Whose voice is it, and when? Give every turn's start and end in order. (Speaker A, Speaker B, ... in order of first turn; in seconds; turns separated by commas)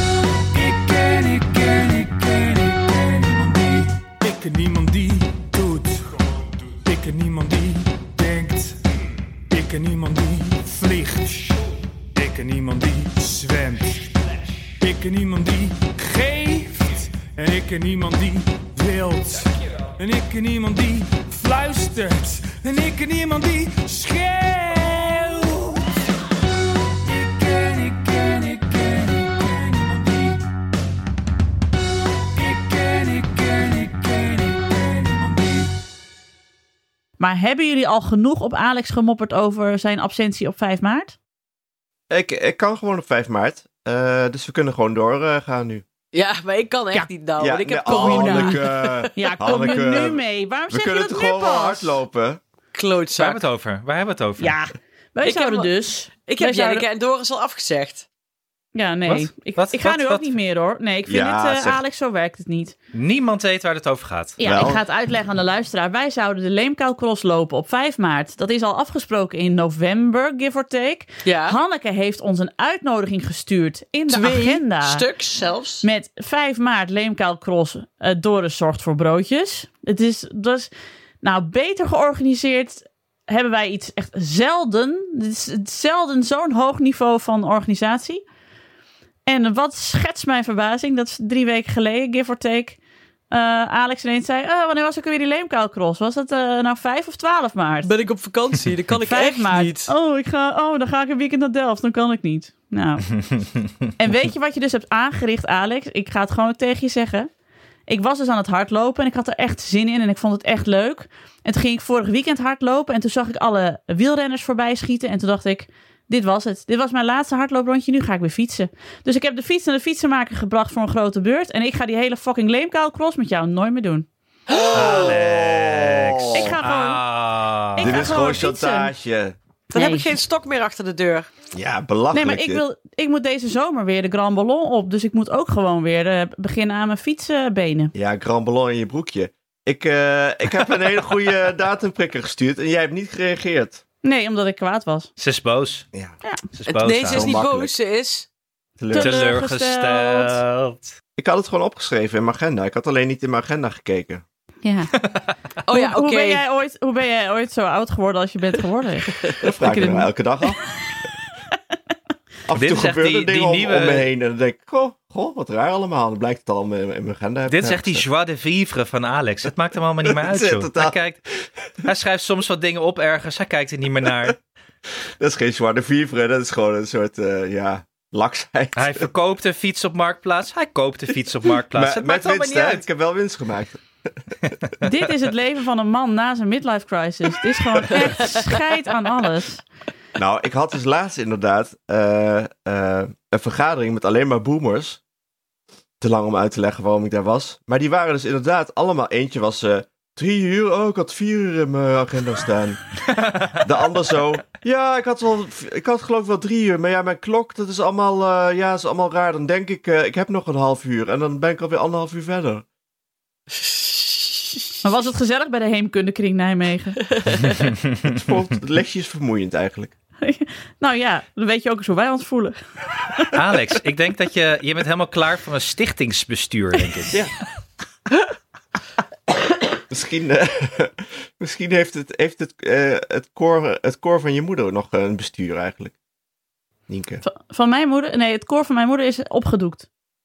Speaker A: 0.5-8.8, Speaker A: 9.5-26.0, Speaker A: 27.1-30.4, Speaker A: 32.4-35.7, Speaker B: 37.2-41.1, Speaker C: 42.1-45.8, Speaker D: 46.1-49.8, Speaker C: 47.4-52.4, Speaker B: 47.8-48.6, Speaker B: 49.1-52.0, Speaker D: 52.7-53.4, Speaker E: 53.1-54.5, Speaker B: 54.4-56.8, Speaker D: 55.2-55.7, Speaker D: 56.2-58.0, Speaker B: 58.7-62.7, Speaker E: 59.1-60.3, Speaker C: 61.1-61.8, Speaker E: 62.9-64.4, Speaker B: 64.4-75.0, Speaker C: 64.4-64.8, Speaker D: 71.2-71.6, Speaker D: 74.1-75.8, Speaker B: 75.8-88.2, Speaker B: 89.2-92.8, Speaker B: 93.3-97.9, Speaker D: 97.8-99.9, Speaker B: 99.0-103.0, Speaker B: 104.0-107.3, Speaker B: 107.9-124.1, Speaker C: 124.5-126.5, Speaker E: 124.7-128.2, Speaker B: 126.3-127.0, Speaker B: 127.7-128.9, Speaker C: 127.8-129.3, Speaker B: 129.7-130.1, Speaker D: 129.7-131.3, Speaker C: 131.5-132.6, Speaker B: 132.1-137.9, Speaker C: 137.9-143.8, Speaker B: 144.0-145.1, Speaker E: 145.2-145.9, Speaker E: 146.5-147.3, Speaker D: 146.7-148.3, Speaker C: 147.1-147.7, Speaker C: 148.8-149.3, Speaker B: 148.9-150.4, Speaker E: 148.9-150.9, Speaker C: 151.2-154.2, Speaker B: 154.6-154.9, Speaker D: 155.7-156.4, Speaker B: 155.7-160.5, Speaker C: 159.3-160.6, Speaker C: 162.5-168.1, Speaker E: 162.5-164.1, Speaker E: 167.5-171.2, Speaker C: 170.0-170.9, Speaker E: 171.8-174.4, Speaker C: 175.2-179.1, Speaker E: 178.8-182.8, Speaker C: 181.7-184.5, Speaker B: 184.8-189.6, Speaker C: 190.2-195.0, Speaker C: 196.0-202.8, Speaker C: 203.6-212.6, Speaker D: 213.6-214.7, Speaker B: 214.8-217.0, Speaker D: 217.1-217.6, Speaker C: 218.0-219.9, Speaker B: 220.2-222.6, Speaker B: 223.1-223.3, Speaker E: 223.3-227.2, Speaker C: 229.8-235.9, Speaker C: 236.9-237.2, Speaker B: 237.2-239.8